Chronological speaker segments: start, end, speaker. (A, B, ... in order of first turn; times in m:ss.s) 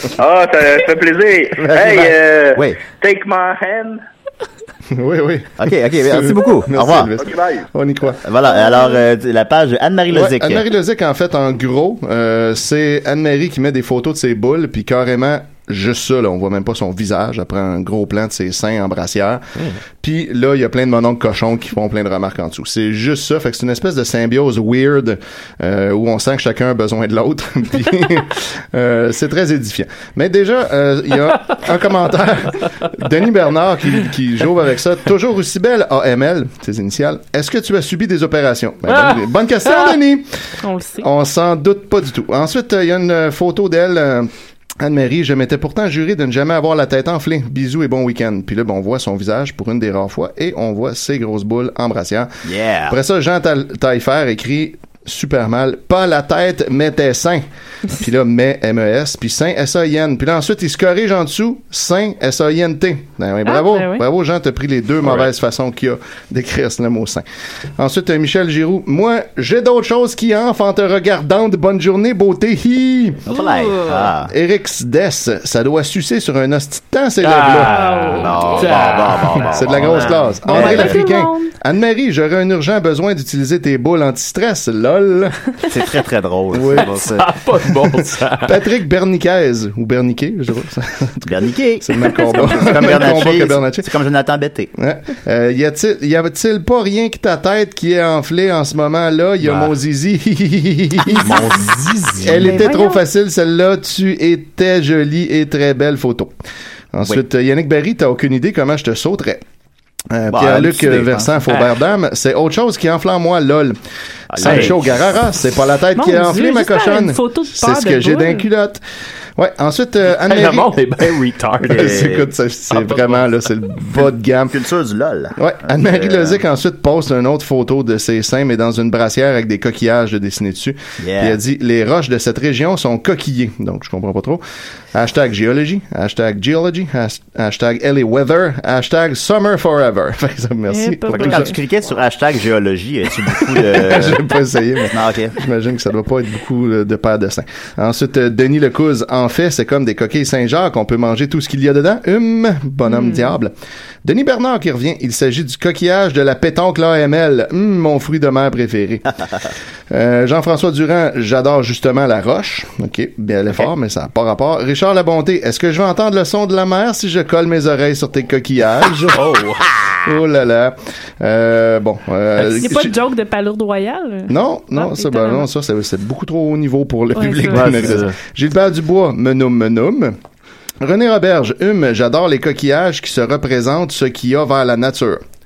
0:00.1-0:04.0 A
0:01.6-0:02.8 B
0:04.9-0:08.2 C
0:05.6-0:07.1 B
0:07.2-0:07.7 A
0:08.2-0:10.7 B
0:08.6-0:09.0 D
0:10.1-0:19.4 C
0:20.0-0:40.3 C
0:38.9-0:39.2 E
0:40.6-0:41.1 D
0:41.0-0:44.3 C
0:44.8-0:52.3 C
0:52.4-0:53.0 B
0:52.9-1:07.2 C
1:03.4-1:04.0 D
1:07.8-1:13.2 C
1:13.2-1:14.3 B
1:13.3-1:14.1 D
1:14.3-1:17.9 C
1:17.2-1:20.4 E
1:17.6-1:18.7 D
1:18.2-1:21.0 B
1:19.5-1:25.4 C
1:20.4-1:21.6 D
1:25.7-1:27.3 B
1:26.5-1:27.0 C
1:26.8-1:28.6 E
1:28.4-1:33.9 C
1:31.2-1:34.7 B
1:32.1-1:32.7 D
1:34.8-1:41.6 C
1:39.4-1:39.7 E
1:41.1-1:42.6 E
1:42.2-1:46.3 C
1:42.3-1:42.8 B
1:42.6-1:43.0 D
1:46.9-1:49.4 C
1:50.1-1:53.8 C
1:50.3-1:51.4 B
1:54.3-1:55.2 B
1:54.3-1:58.8 C
1:54.4-1:54.7 E
1:55.9-1:58.5 D
1:59.4-2:01.2 C
2:00.2-2:02.1 E
2:01.6-2:02.3 B
2:01.7-2:04.6 C
2:02.7-2:03.2 E
2:04.5-2:06.4 B
2:05.4-2:14.4 C
2:11.0-2:11.4 B
2:14.9-2:21.5 C
2:20.7-2:21.5 D
2:21.1-2:24.3 B
2:23.4-2:33.5 C
2:24.9-2:25.4 B
2:32.8-2:33.3 D
2:34.0-2:39.0 C
2:39.9-2:49.2 C
2:49.1-2:49.7 E
2:50.0-2:53.0 C
2:52.4-2:52.7 E
2:52.5-2:55.5 D
2:54.3-3:00.2 C
2:57.1-2:58.0 D
2:57.5-2:58.2 E
3:00.8-3:05.2 C